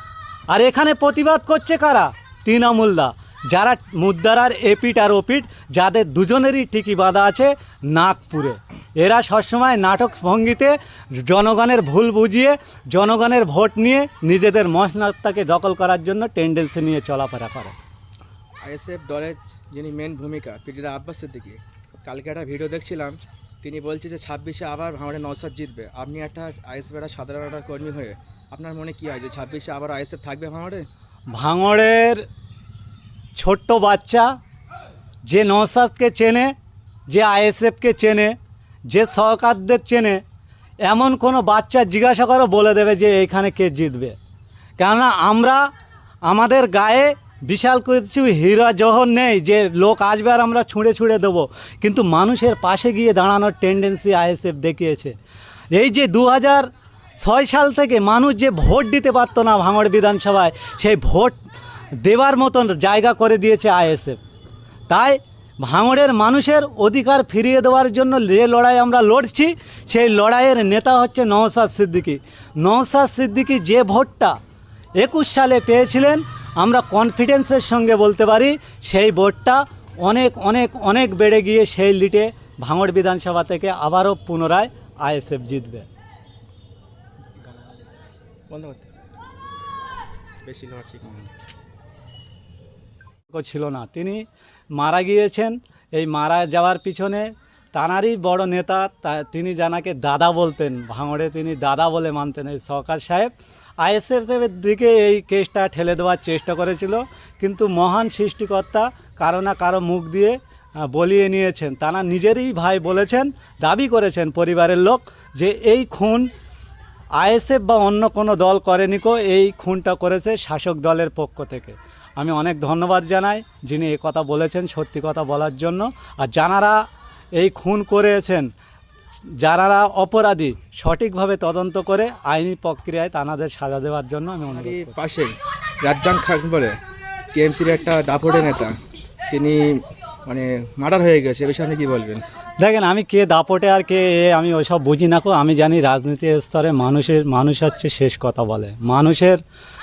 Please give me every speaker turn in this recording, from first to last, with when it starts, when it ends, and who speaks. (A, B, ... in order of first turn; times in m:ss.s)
0:00.5-0:17.8 A
0:18.6-0:30.8 B
0:31.3-0:32.2 A
0:33.4-0:34.3 A
0:35.3-0:36.5 A
0:37.1-0:38.4 A
0:38.9-0:40.2 A
0:40.8-0:44.1 A
0:44.8-0:45.6 A
0:46.2-0:55.1 A
0:55.7-0:56.7 A
0:57.2-1:01.4 A
1:02.0-1:04.2 A
1:04.9-1:14.3 A
1:15.0-1:25.9 A
1:28.5-1:28.9 B
1:30.4-1:31.3 B
1:33.3-1:43.3 A
1:43.8-1:50.4 A
1:50.9-1:56.3 A
1:57.2-2:06.8 A
2:07.4-2:08.5 A
2:09.4-2:15.0 A
2:14.5-2:16.7 B
2:17.3-2:18.7 B
2:19.3-2:22.2 B
2:22.6-2:29.4 A